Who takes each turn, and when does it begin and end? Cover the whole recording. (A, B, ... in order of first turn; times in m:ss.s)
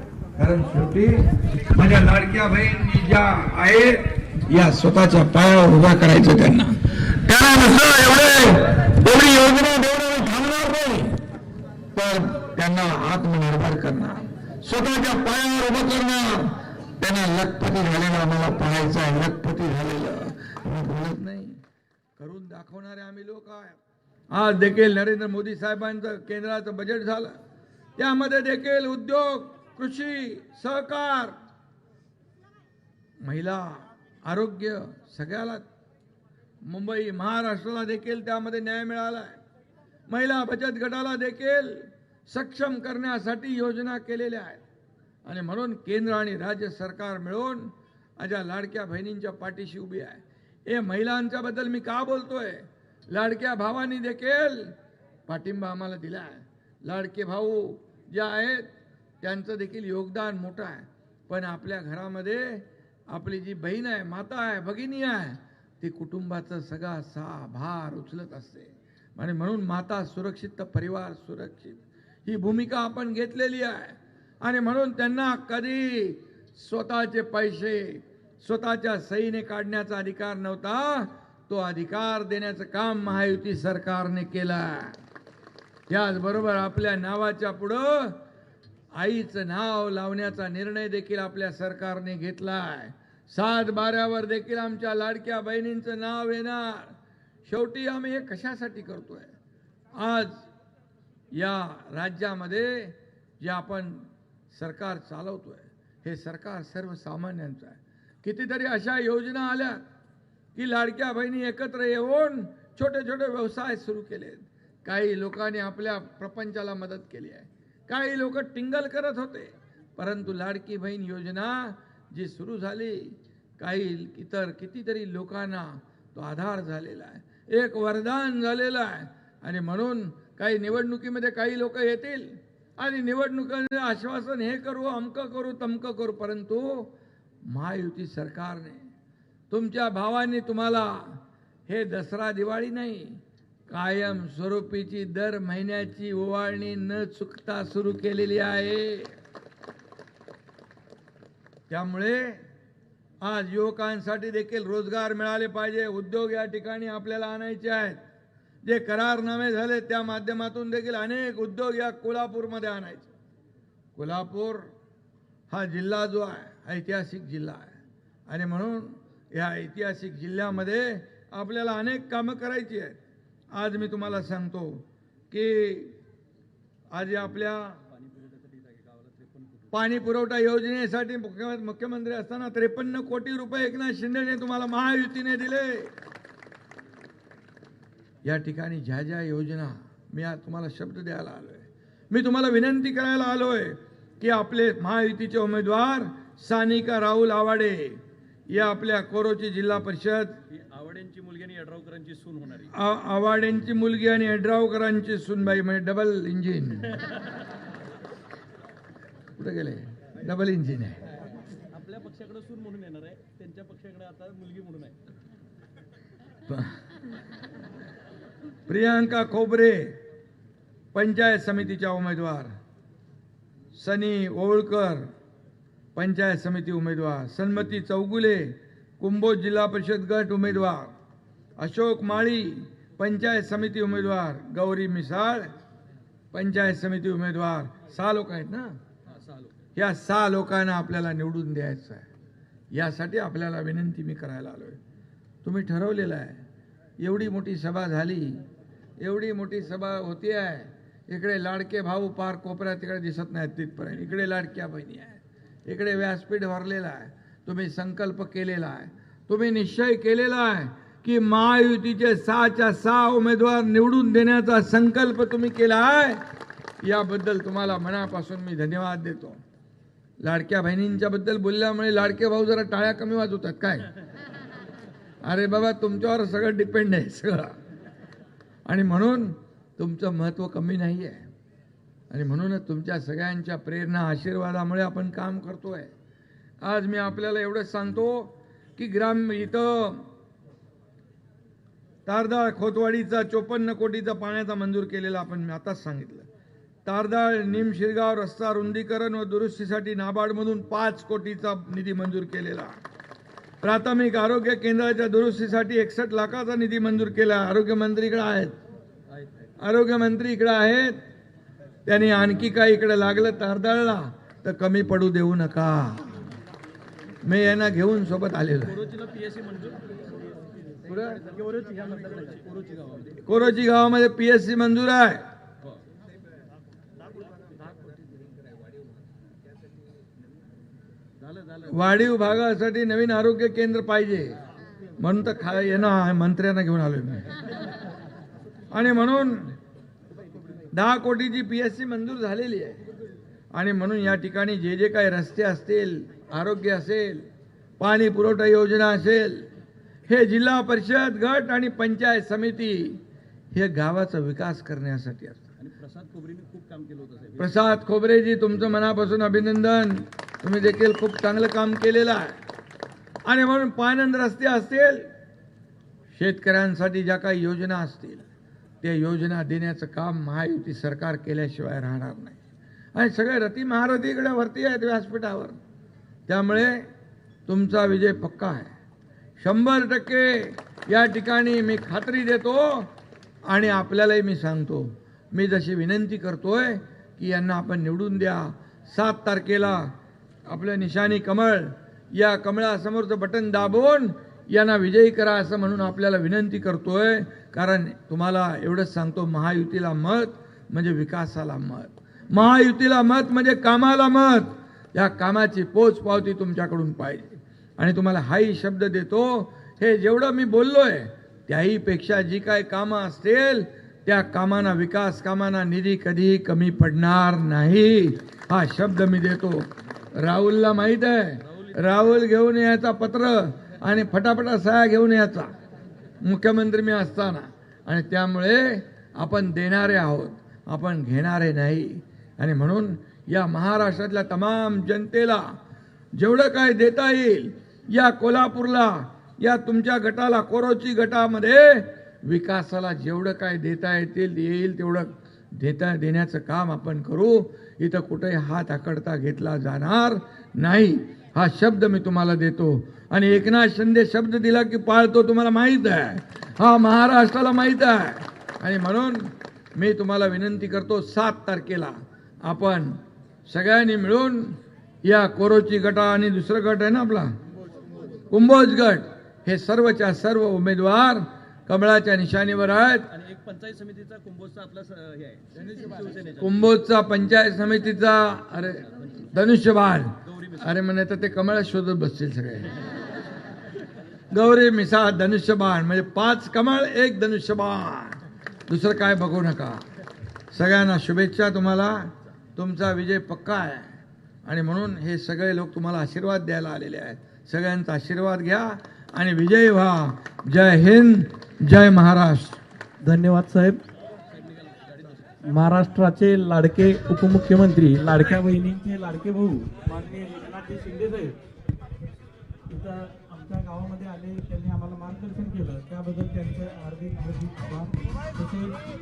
0:00.4-0:11.2 A
0:11.9-0:21.6 A
0:22.2-0:23.8 A
0:24.3-0:27.4 A
0:28.0-0:31.4 A
0:33.2-0:35.6 A
0:36.6-0:39.4 A
0:40.1-0:44.6 A
0:45.2-0:54.7 A
0:55.3-0:58.7 A
0:59.2-1:25.0 A
1:25.9-1:28.2 A
1:28.9-1:39.3 A
1:40.0-1:40.4 A
1:41.3-1:49.8 A
1:50.5-2:16.9 A
2:17.5-2:18.9 A
2:19.5-2:29.1 A
2:31.7-2:32.4 A
2:33.2-2:38.0 A
2:38.6-2:43.1 A
2:43.9-2:44.7 A
2:45.5-2:47.8 A
2:48.3-2:53.0 A
2:53.5-2:56.0 A
2:56.9-2:57.8 A
2:57.9-2:59.7 B
2:59.7-3:05.9 A
3:08.2-3:20.4 A
3:20.5-3:22.7 B
3:22.7-3:27.0 A
3:29.3-3:31.0 A
3:31.7-3:35.0 B
3:36.5-3:36.8 A
3:38.6-3:40.0 A
3:40.9-3:42.5 A
3:43.7-3:45.1 A
3:45.9-3:50.9 A
3:51.6-3:55.5 A
3:56.3-3:58.8 A
3:59.2-3:59.5 B
3:59.8-4:02.1 A
4:02.7-4:04.8 A
4:05.4-4:06.4 A
4:07.0-4:08.4 A
4:09.0-4:26.2 A
4:26.8-4:29.4 A
4:30.2-4:33.9 A
4:35.2-4:37.6 A
4:38.6-4:41.3 A
4:42.1-4:45.9 A
4:46.6-4:50.1 A
4:52.0-4:56.3 A
4:56.8-5:02.7 A
5:03.6-5:08.6 A
5:09.6-5:11.0 A
5:11.8-5:16.1 A
5:17.2-5:18.8 A
5:18.7-5:20.2 B
5:20.9-5:21.2 A
5:21.1-5:23.2 B
5:23.2-5:25.2 A
5:31.3-5:31.7 B
5:31.7-5:34.4 A
5:35.0-5:37.4 A
5:38.7-5:39.6 A
5:40.7-5:42.8 A
5:43.5-5:47.3 A
5:47.8-5:49.5 A
5:50.1-5:53.0 A
5:53.5-5:55.5 A
5:55.6-5:57.4 B
5:57.4-6:02.4 A
6:03.2-6:05.1 A
6:06.1-6:08.3 A
6:08.8-6:12.4 A
6:12.9-6:15.6 A
6:16.3-6:16.9 A
6:17.4-6:18.7 A
6:19.4-6:22.9 A
6:23.5-6:29.9 A
6:30.5-6:59.7 A
7:00.2-7:05.5 A
7:06.2-7:15.5 A
7:16.1-7:47.3 A
7:48.3-7:53.1 A
7:53.1-7:56.4 B
7:56.4-8:02.9 A
8:04.3-8:09.8 A
8:10.5-8:22.6 A
8:23.0-8:23.8 C
8:24.3-8:25.4 B
8:25.4-8:31.4 C
8:32.7-8:38.8 C